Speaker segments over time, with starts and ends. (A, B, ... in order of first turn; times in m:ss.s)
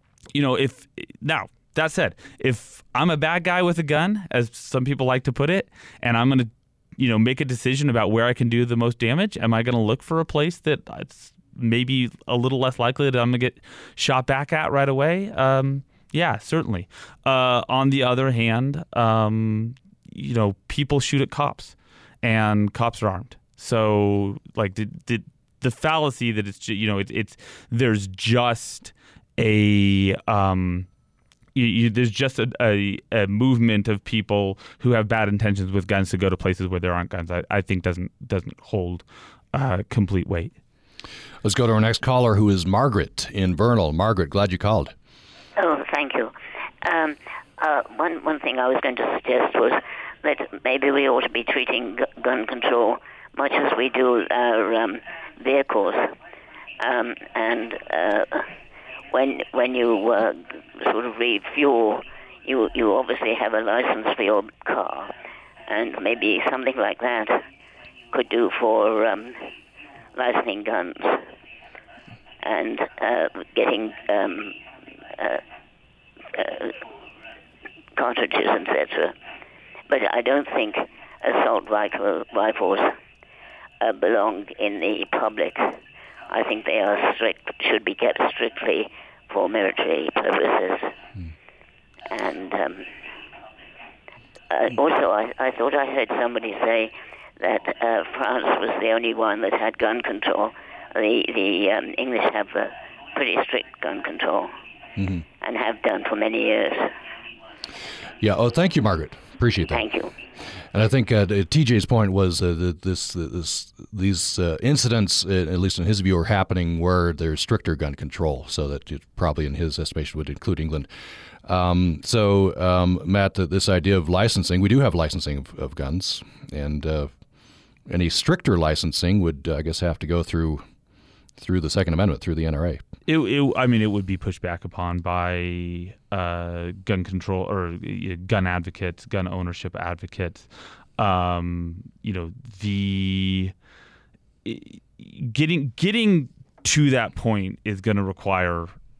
0:00.3-0:30.9 A
0:31.6-0:40.6 A
0:41.4-0:44.9 B
0:45.6-0:56.1 C
0:56.8-0:58.5 C
0:59.1-1:05.2 C
1:05.7-1:07.4 C
1:08.1-1:09.5 C
1:10.2-1:11.2 C
1:12.4-1:14.6 C
1:15.2-1:15.4 C
1:16.3-1:16.8 C
1:18.0-1:19.1 C
1:19.9-1:23.0 C
1:23.8-1:25.8 C
1:26.3-1:30.9 C
1:32.1-1:32.9 C
1:34.5-1:44.5 C
1:45.0-1:45.2 B
1:45.4-1:46.9 C
1:48.2-1:49.8 B
1:49.7-1:50.1 C
1:50.7-2:00.9 B
2:01.4-2:07.1 B
2:07.9-2:10.6 B
2:11.4-2:12.8 B
2:13.1-2:20.5 A
2:21.0-2:23.5 A
2:24.4-2:28.7 A